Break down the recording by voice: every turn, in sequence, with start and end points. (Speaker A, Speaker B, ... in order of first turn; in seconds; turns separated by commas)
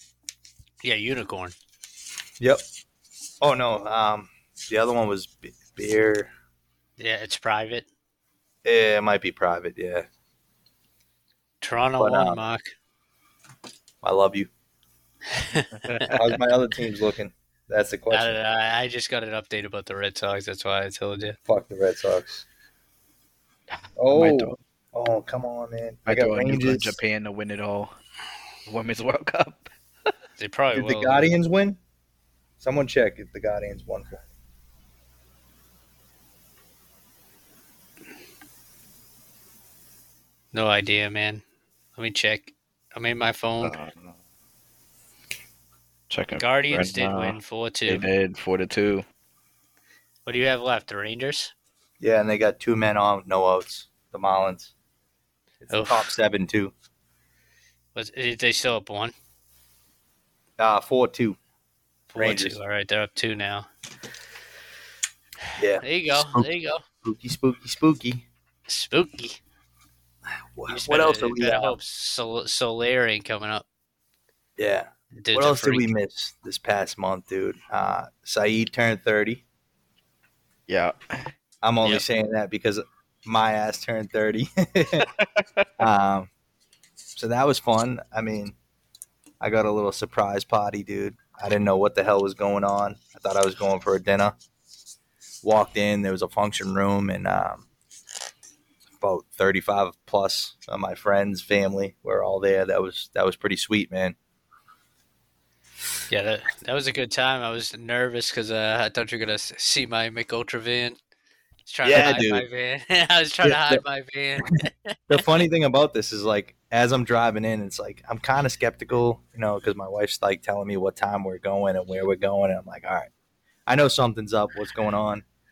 Speaker A: 0.8-1.6, Speaker B: 3.4-6.3, Speaker A: 7.0-7.9, Speaker B: 8.6-10.1, Speaker A: 11.6-12.7, Speaker B: 12.0-12.4, Speaker B: 14.0-14.5, Speaker A: 15.3-16.1, Speaker C: 15.9-16.4, Speaker B: 16.1-18.4, Speaker A: 18.1-21.4, Speaker B: 21.5-22.4, Speaker C: 23.7-24.6, Speaker B: 24.0-27.0, Speaker C: 26.1-27.9, Speaker C: 28.7-29.7, Speaker A: 30.4-31.3, Speaker B: 30.7-31.8, Speaker B: 32.6-34.2, Speaker A: 40.5-41.4, Speaker A: 42.0-43.8, Speaker C: 43.6-44.2, Speaker C: 46.1-49.0, Speaker A: 46.4-48.1, Speaker A: 50.3-51.5, Speaker B: 52.0-54.7, Speaker B: 55.6-56.7, Speaker A: 55.7-56.1, Speaker A: 58.0-59.1, Speaker B: 60.6-61.4, Speaker A: 62.1-63.7, Speaker B: 62.2-62.6, Speaker B: 65.6-66.5, Speaker A: 65.8-66.8, Speaker B: 67.0-68.2, Speaker A: 68.7-69.4, Speaker B: 70.6-71.8, Speaker A: 70.7-73.7, Speaker B: 74.6-79.4, Speaker A: 75.2-75.9, Speaker C: 80.7-81.3, Speaker B: 81.6-85.1, Speaker C: 85.2-85.7, Speaker B: 85.8-86.3, Speaker B: 87.2-88.6, Speaker B: 89.4-94.3, Speaker B: 95.4-97.7, Speaker B: 99.0-104.2, Speaker A: 106.1-111.0, Speaker A: 111.7-115.2, Speaker B: 111.8-112.5, Speaker B: 113.4-113.8, Speaker B: 115.1-123.1, Speaker B: 123.7-125.2